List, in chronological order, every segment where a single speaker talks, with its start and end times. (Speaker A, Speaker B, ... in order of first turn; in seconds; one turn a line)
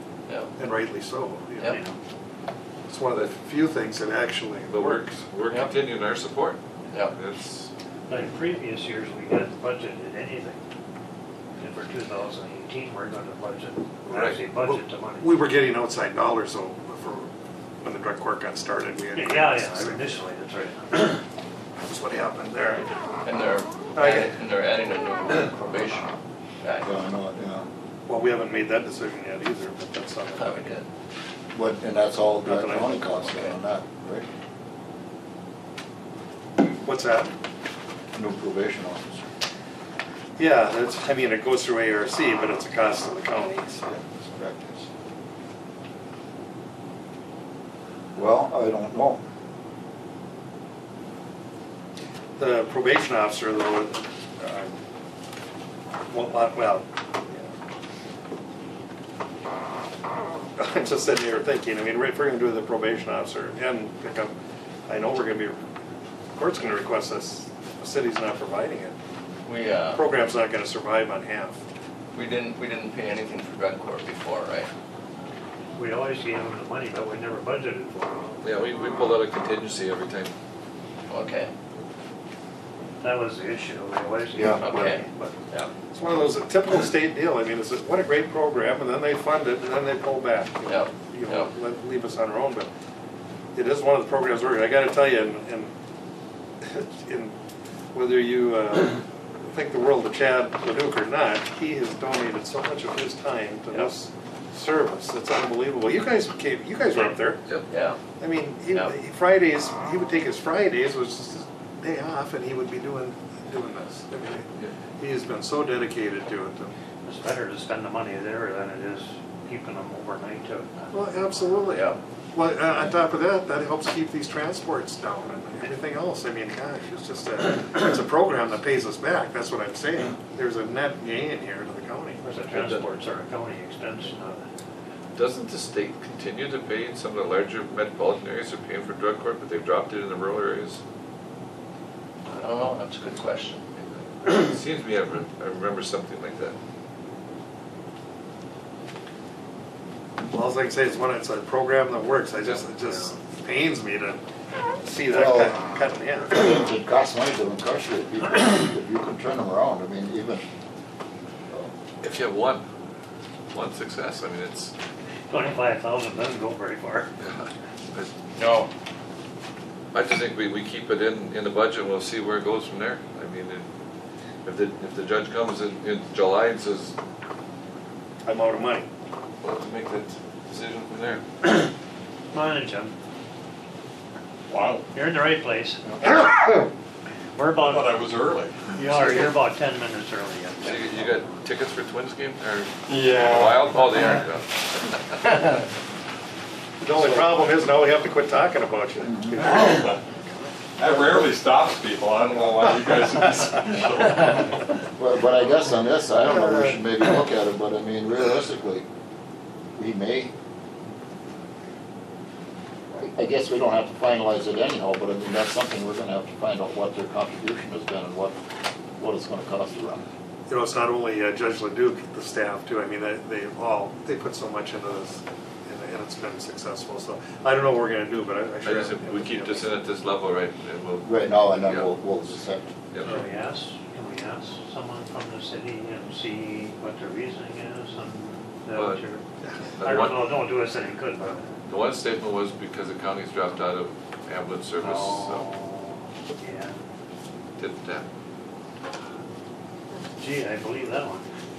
Speaker A: 0.6-1.8
Speaker B: 1.6-2.0
Speaker A: 2.9-5.1
Speaker C: 4.7-6.6
Speaker C: 7.1-7.7
Speaker B: 8.1-10.6
Speaker B: 11.6-15.3
Speaker C: 14.1-14.5
Speaker A: 14.6-20.2
Speaker B: 19.1-21.2
Speaker A: 21.8-22.9
Speaker D: 23.2-26.9
Speaker A: 23.9-24.3
Speaker E: 26.8-27.7
Speaker A: 28.1-30.6
Speaker D: 30.3-30.9
Speaker E: 31.5-34.3
Speaker A: 32.5-33.3
Speaker A: 36.8-37.3
Speaker E: 38.1-39.3
Speaker A: 40.4-43.9
Speaker E: 43.9-44.9
Speaker E: 48.1-49.2
Speaker A: 52.4-54.8
Speaker A: 56.1-57.5
Speaker A: 60.6-64.3
Speaker A: 64.9-65.6
Speaker A: 66.4-69.0
Speaker D: 69.5-70.0
Speaker A: 69.9-71.6
Speaker D: 72.1-74.7
Speaker B: 75.8-78.4
Speaker C: 78.4-80.3
Speaker D: 81.1-81.5
Speaker B: 83.0-85.4
Speaker E: 84.4-85.0
Speaker D: 84.5-85.7
Speaker A: 85.9-92.7
Speaker D: 90.7-91.5
Speaker A: 93.5-95.7
Speaker A: 96.6-97.4
Speaker A: 97.9-107.4
Speaker D: 107.7-108.0
Speaker A: 108.2-116.8
Speaker B: 117.0-120.9
Speaker A: 120.9-132.2
Speaker D: 121.7-122.0
Speaker B: 132.2-134.5
Speaker C: 132.5-132.9
Speaker C: 135.2-140.8
Speaker D: 142.4-143.7
Speaker C: 143.8-146.6
Speaker A: 150.3-154.2
Speaker A: 154.8-156.4
Speaker E: 155.1-155.6
Speaker E: 156.3-160.4
Speaker C: 162.0-162.7
Speaker C: 163.5-164.7
Speaker B: 165.3-167.1
Speaker C: 167.2-168.1
Speaker D: 168.3-168.7
Speaker C: 169.9-173.7
Speaker C: 174.4-176.9
Speaker A: 178.2-178.9
Speaker C: 179.4-181.2
Speaker B: 182.3-183.0
Speaker F: 184.5-184.9
Speaker B: 184.9-185.9
Speaker B: 187.3-188.1
Speaker F: 187.6-189.3
Speaker B: 188.7-191.4
Speaker C: 190.6-195.3
Speaker F: 192.9-194.0
Speaker A: 196.8-200.3
Speaker F: 199.5-200.0
Speaker F: 200.8-204.6
Speaker E: 205.0-208.9
Speaker A: 206.2-206.8
Speaker E: 209.8-210.3
Speaker E: 212.9-218.4
Speaker E: 219.0-220.0
Speaker A: 220.5-229.7
Speaker C: 228.6-231.9
Speaker E: 231.1-232.7
Speaker B: 233.0-239.2
Speaker C: 238.7-239.0
Speaker C: 239.8-240.4
Speaker B: 239.8-241.5
Speaker C: 241.7-245.5
Speaker B: 244.8-246.8
Speaker C: 247.6-248.1
Speaker B: 250.2-251.3